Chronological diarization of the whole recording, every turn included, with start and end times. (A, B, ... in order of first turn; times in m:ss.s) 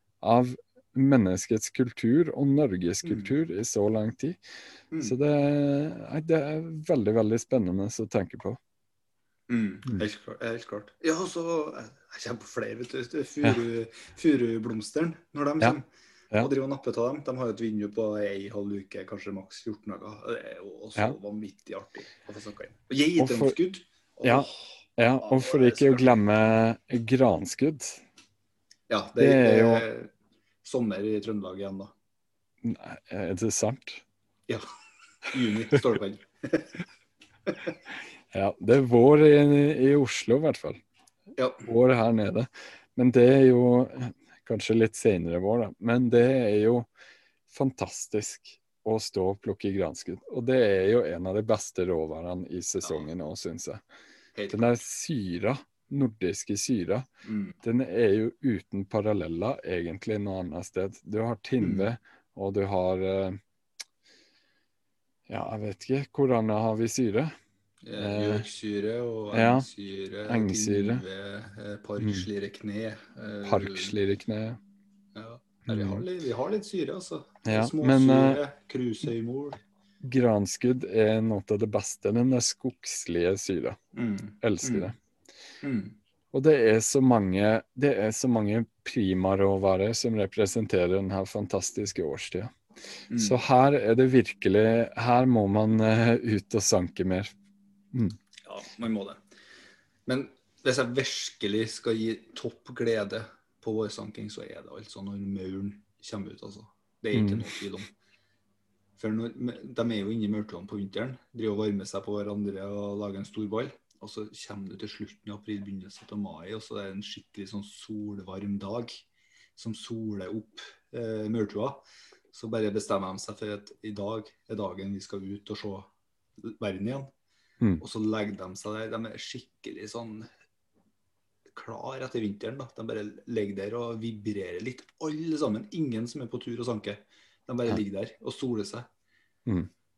0:00.2-0:04.4 A
0:03.0-0:03.3 B
0:05.0-0:08.6 A
0:09.5-0:26.1 B
0:23.2-0:23.6 A
0:24.2-0:28.0 A
0:28.9-0:30.1 B
0:29.2-0:29.9 A
0:30.6-0:31.9 B
0:32.6-0:34.0 A
0:35.2-0:36.8 B
0:38.3-0:40.8 A
0:41.4-0:41.7 B
0:41.7-0:46.9 A
0:47.5-0:53.8 A
0:52.8-0:53.1 B
0:54.4-0:54.8 B
0:54.5-0:57.1 A
0:57.2-0:57.6 B
0:57.6-1:03.4 A
1:01.6-1:01.9 B
1:05.3-1:07.3 A
1:07.8-1:14.0 B
1:08.0-1:08.5 A
1:09.3-1:09.7 A
1:10.3-1:11.0 A
1:12.0-1:12.3 A
1:13.4-1:14.6 A
1:15.2-1:19.6 B
1:15.7-1:16.0 A
1:17.4-1:18.4 A
1:20.0-1:23.8 A
1:23.9-1:24.9 B
1:24.4-1:25.0 A
1:25.6-1:26.0 B
1:26.3-1:32.6 A
1:33.1-1:33.4 B
1:33.1-1:37.3 A
1:37.9-1:38.2 A
1:38.4-1:39.2 B
1:40.1-1:47.9 B
1:47.1-1:47.5 A
1:49.0-1:59.0 B
1:59.6-2:07.1 B
2:07.8-2:10.3 B
2:11.5-2:18.9 B